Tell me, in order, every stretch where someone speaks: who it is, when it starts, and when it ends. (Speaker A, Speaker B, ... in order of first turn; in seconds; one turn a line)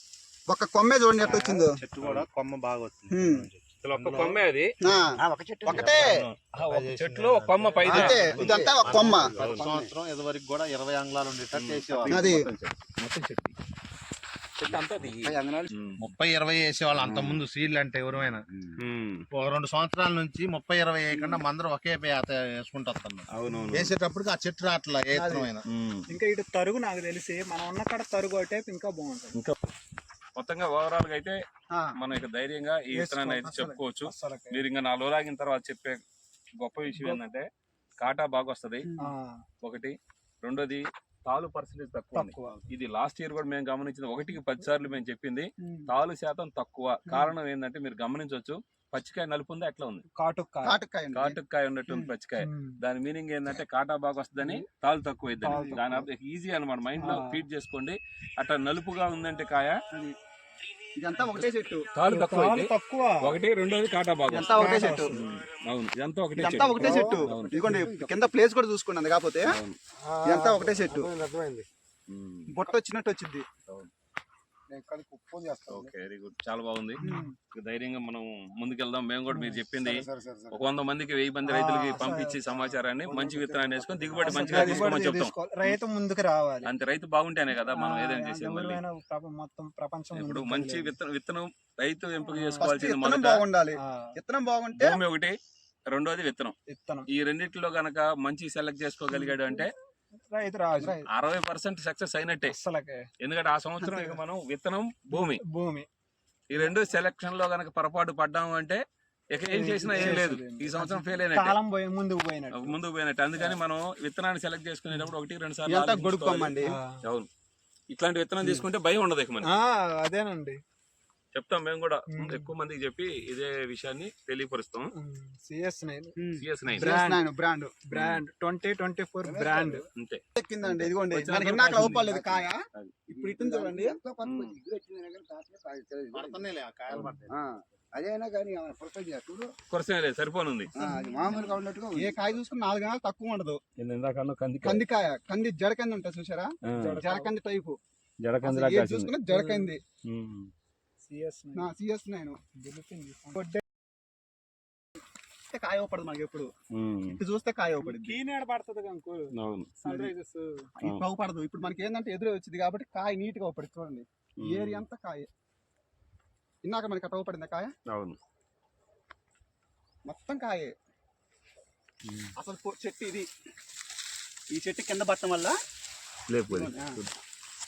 Speaker A: 0.5-1.8
Speaker B: 1.3-4.4
Speaker C: 2.0-2.3
Speaker A: 3.1-3.5
Speaker C: 3.8-4.8
Speaker A: 4.8-5.1
Speaker D: 5.2-6.2
Speaker A: 5.6-6.2
Speaker C: 5.7-9.7
Speaker B: 6.6-12.3
Speaker A: 7.8-9.4
Speaker D: 7.9-9.9
Speaker C: 11.5-13.6
Speaker A: 12.1-12.5
Speaker C: 14.6-16.1
Speaker D: 14.7-15.7
Speaker B: 16.0-18.4
Speaker C: 17.0-17.4
Speaker C: 18.8-19.2
Speaker B: 19.3-25.6
Speaker C: 23.3-23.9
Speaker E: 25.1-25.5
Speaker C: 25.8-26.1
Speaker E: 26.1-29.4
Speaker C: 30.4-31.4
Speaker C: 32.0-36.0
Speaker E: 32.9-34.6
Speaker B: 33.4-33.8
Speaker C: 36.6-37.5
Speaker C: 38.0-38.9
Speaker A: 38.9-39.1
Speaker E: 39.0-39.4
Speaker C: 39.6-50.0
Speaker E: 42.1-42.6
Speaker A: 45.6-45.9
Speaker E: 50.1-50.8
Speaker A: 50.6-52.1
Speaker C: 51.1-59.8
Speaker E: 52.4-52.8
Speaker E: 54.4-54.6
Speaker E: 55.4-56.1
Speaker A: 55.5-55.8
Speaker E: 57.0-57.4
Speaker A: 61.0-61.9
Speaker C: 62.0-67.7
Speaker E: 62.1-63.3
Speaker A: 64.3-65.1
Speaker E: 64.4-65.2
Speaker A: 66.4-69.6
Speaker E: 66.8-67.2
Speaker D: 66.9-68.3
Speaker C: 69.5-69.8
Speaker A: 70.2-71.1
Speaker D: 70.6-71.7
Speaker C: 72.1-72.5
Speaker A: 72.5-73.5
Speaker D: 74.7-75.9
Speaker C: 75.7-77.0
Speaker E: 77.0-77.3
Speaker A: 77.0-77.3
Speaker C: 77.5-85.8
Speaker E: 79.3-79.6
Speaker D: 79.8-80.6
Speaker E: 81.5-82.6
Speaker D: 83.1-84.8
Speaker E: 84.2-86.7
Speaker A: 84.4-84.9
Speaker C: 86.6-88.8
Speaker E: 87.7-90.9
Speaker C: 90.2-93.4
Speaker E: 92.3-92.8
Speaker A: 92.6-95.0
Speaker E: 93.8-94.1
Speaker C: 94.8-95.3
Speaker C: 95.9-96.5
Speaker E: 96.7-97.1
Speaker C: 97.1-99.7
Speaker E: 100.3-101.0
Speaker A: 100.8-101.0
Speaker C: 101.1-102.5
Speaker E: 102.5-103.0
Speaker C: 103.2-105.4
Speaker A: 103.8-104.2
Speaker E: 105.1-105.9
Speaker C: 106.5-108.8
Speaker C: 109.3-111.6
Speaker E: 109.5-112.8
Speaker A: 109.9-110.2
Speaker C: 112.6-117.3
Speaker A: 115.7-116.8
Speaker E: 116.6-117.0
Speaker C: 117.9-119.5
Speaker E: 119.4-120.6
Speaker C: 121.3-124.9
Speaker E: 122.1-122.5
Speaker E: 124.9-126.1
Speaker A: 126.2-127.8
Speaker C: 126.4-126.9
Speaker E: 126.8-127.2
Speaker E: 127.9-129.8
Speaker C: 127.9-128.2
Speaker D: 129.2-129.9
Speaker C: 130.0-132.1
Speaker A: 130.4-132.6
Speaker D: 131.3-132.5
Speaker A: 133.1-134.0
Speaker D: 133.1-139.5
Speaker C: 134.2-134.6
Speaker B: 136.1-137.4
Speaker C: 139.7-140.7
Speaker D: 140.8-142.2
Speaker E: 140.8-141.5
Speaker A: 140.8-143.6
Speaker C: 143.8-144.8
Speaker A: 144.6-147.8
Speaker C: 146.7-147.0
Speaker E: 146.8-147.3
Speaker C: 148.2-149.1
Speaker A: 148.4-149.8
Speaker E: 149.3-149.7
Speaker C: 150.1-150.5
Speaker E: 151.0-151.7
Speaker A: 151.6-152.4
Speaker E: 152.6-153.6
Speaker A: 155.5-156.5
Speaker C: 156.8-157.2
Speaker A: 157.1-158.2
Speaker E: 157.8-160.5
Speaker C: 159.4-159.7
Speaker A: 159.9-160.1
Speaker A: 160.8-165.2
Speaker C: 164.4-164.8
Speaker A: 166.6-167.7
Speaker C: 167.9-168.2
Speaker A: 170.1-170.7
Speaker C: 172.1-172.3
Speaker A: 172.4-173.3
Speaker A: 174.5-175.6
Speaker C: 176.3-177.1
Speaker A: 176.5-177.0